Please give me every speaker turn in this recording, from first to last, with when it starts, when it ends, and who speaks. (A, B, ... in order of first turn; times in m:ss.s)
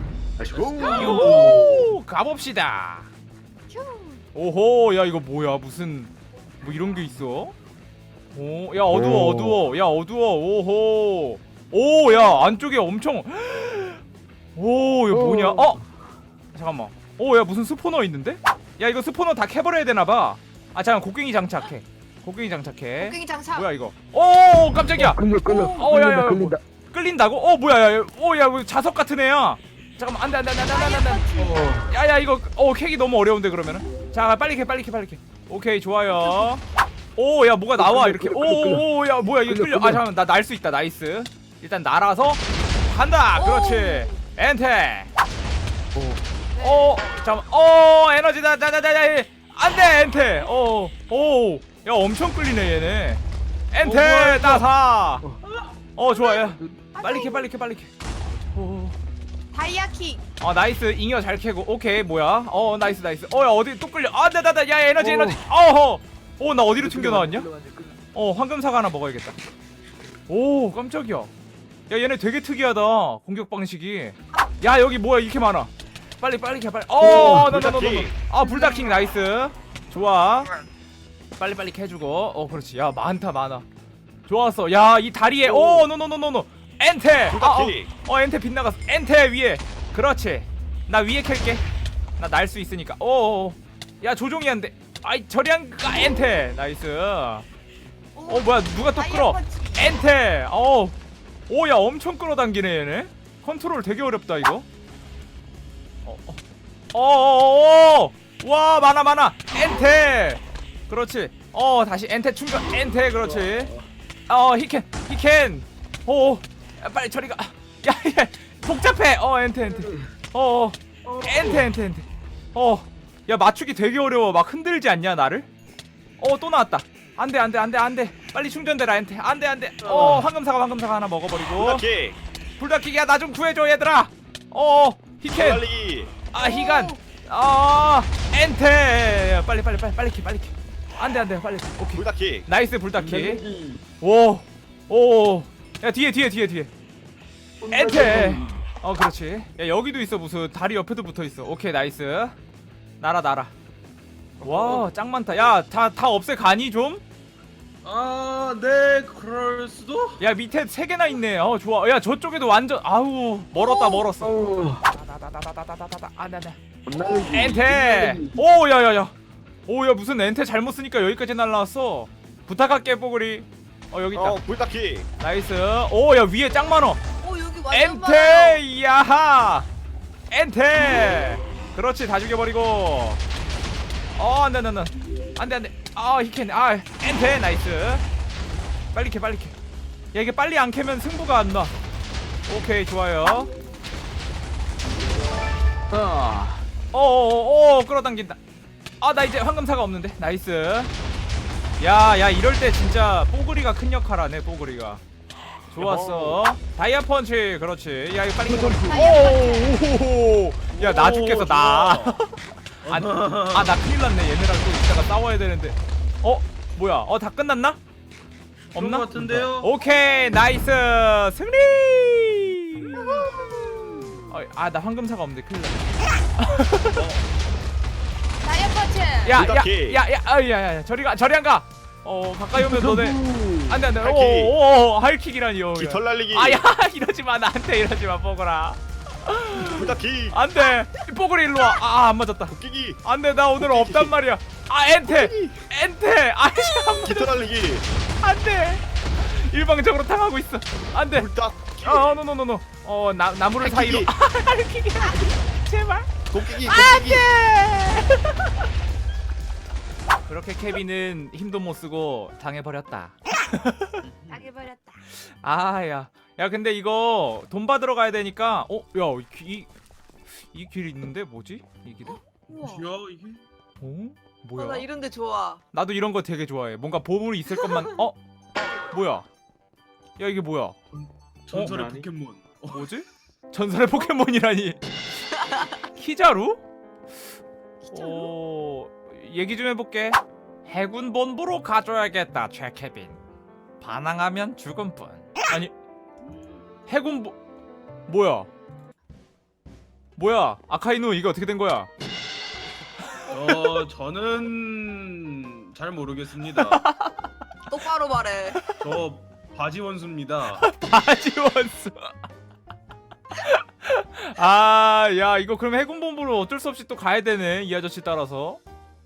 0:00.4-0:01.9 A
0:00.5-0:01.4 B
0:00.9-0:03.1 C
0:03.7-0:04.2 D
0:04.3-0:07.5 C
0:08.3-0:14.0 C
0:08.9-0:09.6 A
0:14.5-0:15.8 C
0:15.1-0:15.8 A
0:16.5-0:31.2 C
0:23.0-0:23.7 D
0:25.0-0:26.6 A
0:30.7-0:31.7 D
0:31.4-0:31.9 A
0:31.9-0:36.6 C
0:37.2-0:45.1 C
0:37.8-0:40.0 A
0:43.4-0:44.2 D
0:45.9-0:46.2 A
0:46.5-0:47.0 D
0:46.6-0:55.3 C
0:53.8-0:54.6 A
0:55.9-0:57.9 C
0:56.1-0:56.4 D
0:56.9-0:57.5 D
0:58.5-0:59.0 C
0:59.5-1:00.2 D
1:00.4-1:07.5 C
1:05.0-1:05.4 A
1:06.7-1:08.0 A
1:08.1-1:09.4 C
1:10.3-1:11.3 C
1:11.9-1:20.5 C
1:17.0-1:17.5 A
1:17.1-1:18.1 E
1:21.4-1:23.6 C
1:24.3-1:31.6 C
1:25.4-1:25.9 A
1:27.3-1:27.9 E
1:32.2-1:37.4 C
1:38.2-1:40.0 D
1:38.3-1:41.0 C
1:41.5-1:44.6 C
1:46.0-1:46.4 C
1:46.9-1:53.7 C
1:53.2-1:53.7 A
1:54.3-2:05.5 C
1:59.7-2:00.0 A
2:01.0-2:01.7 A
2:06.2-2:11.8 C
2:09.9-2:10.2 A
2:11.6-2:12.2 E
2:12.6-2:15.7 C
2:15.3-2:16.1 E
2:16.3-2:23.4 C
2:16.4-2:17.0 D
2:21.9-2:22.4 E
2:23.0-2:23.8 A
2:24.0-2:26.7 C
2:27.6-2:28.6 A
2:27.7-2:32.4 C
2:33.0-2:33.5 C
2:34.4-2:37.0 C
2:37.8-2:40.2 B
2:40.2-2:46.6 C
2:43.5-2:44.1 D
2:44.2-2:44.9 A
2:46.8-2:48.4 A
2:47.3-2:49.1 C
2:49.6-2:54.4 C
2:54.1-2:55.1 E
2:55.2-2:57.0 C
2:57.2-2:58.6 D
2:57.7-2:59.7 C
3:00.3-3:03.2 C
3:04.1-3:08.0 C
3:08.9-3:09.5 C
3:10.1-3:11.7 C
3:12.5-3:13.5 C
3:15.9-3:16.6 A
3:16.9-3:18.4 C
3:19.0-3:20.9 C
3:21.8-3:25.0 C
3:25.7-3:37.8 C
3:25.8-3:26.4 E
3:28.4-3:29.8 D
3:30.7-3:32.1 B
3:32.8-3:33.8 B
3:38.7-3:39.7 B
3:38.7-3:43.4 C
3:43.0-3:43.3 D
3:44.1-3:47.0 C
3:48.4-3:49.4 D
3:49.2-4:07.3 C
3:49.3-3:50.0 E
3:52.6-3:53.7 A
3:53.9-3:54.5 E
3:55.7-3:56.6 E
3:59.6-4:00.4 E
4:02.5-4:03.0 E
4:03.6-4:04.1 E
4:05.0-4:05.6 E
4:07.0-4:07.8 E
4:08.2-4:11.3 C
4:11.1-4:12.2 E
4:11.8-4:18.6 C
4:13.6-4:14.1 E
4:16.3-4:17.2 E
4:20.3-4:24.0 C
4:24.1-4:24.4 B
4:24.3-4:25.0 D
4:25.2-4:29.7 C
4:30.4-4:32.2 C
4:32.1-4:32.9 D
4:32.7-4:33.4 B
4:33.8-4:34.9 C
4:34.6-4:35.6 D
4:35.7-4:38.2 C
4:37.5-4:38.0 D
4:38.9-4:39.3 C
4:40.2-4:40.7 C
4:41.0-4:42.8 B
4:41.6-4:41.9 C
4:42.7-4:46.6 C
4:47.8-4:48.3 D
4:47.9-4:53.2 C
4:53.8-4:55.7 C
4:56.9-4:57.4 C
4:58.1-4:58.5 C
5:00.2-5:01.9 C
5:03.3-5:06.8 B
5:06.5-5:07.3 C
5:07.7-5:08.6 D
5:08.8-5:10.6 B
5:10.5-5:12.1 C
5:13.3-5:18.6 C